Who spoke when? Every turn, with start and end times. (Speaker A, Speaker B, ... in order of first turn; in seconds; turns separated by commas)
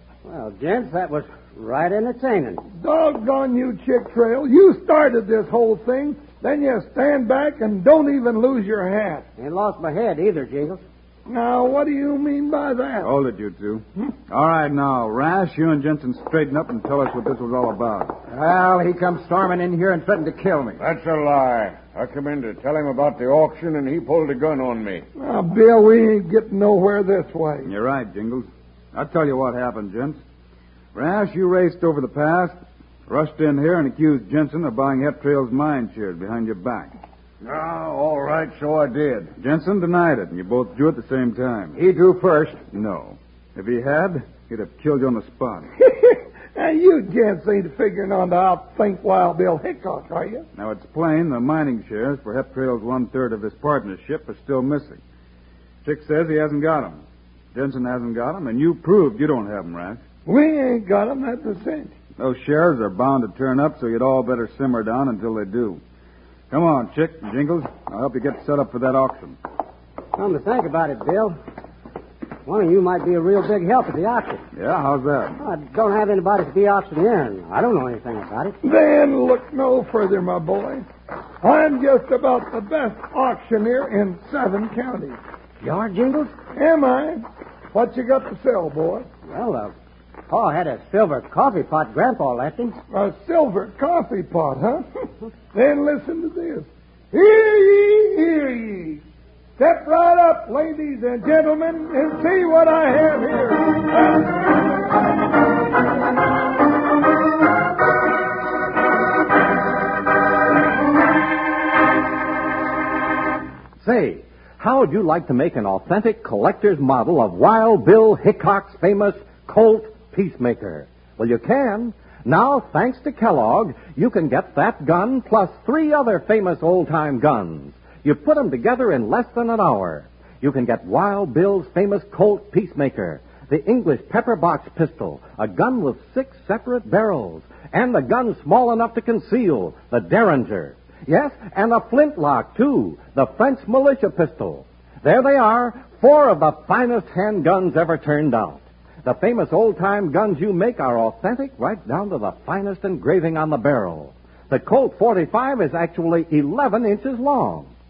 Speaker A: 0.2-2.6, Speaker B: 2.8-9.3, Speaker A: 9.4-10.8, Speaker B: 11.3-13.1, Speaker C: 13.0-18.2, Speaker D: 18.3-20.8, Speaker E: 20.8-25.1, Speaker B: 25.2-27.7, Speaker C: 27.6-30.2, Speaker C: 30.9-36.9, Speaker E: 37.4-39.3, Speaker C: 39.4-41.8, Speaker E: 41.8-42.3, Speaker C: 42.7-45.7, Speaker B: 45.8-50.5, Speaker C: 50.6-55.0, Speaker C: 55.8-57.0, Speaker C: 57.5-60.0, Speaker B: 60.3-61.9, Speaker C: 62.2-65.8, Speaker C: 66.5-69.4, Speaker A: 70.2-71.4, Speaker A: 72.5-74.4, Speaker C: 74.5-75.4, Speaker A: 75.4-78.6, Speaker B: 78.6-80.9, Speaker B: 81.4-85.2, Speaker A: 85.6-86.3, Speaker B: 86.5-89.1, Speaker A: 89.3-89.7, Speaker A: 90.3-92.8, Speaker B: 92.9-94.8, Speaker B: 95.5-99.0, Speaker B: 99.6-104.1, Speaker F: 113.8-157.7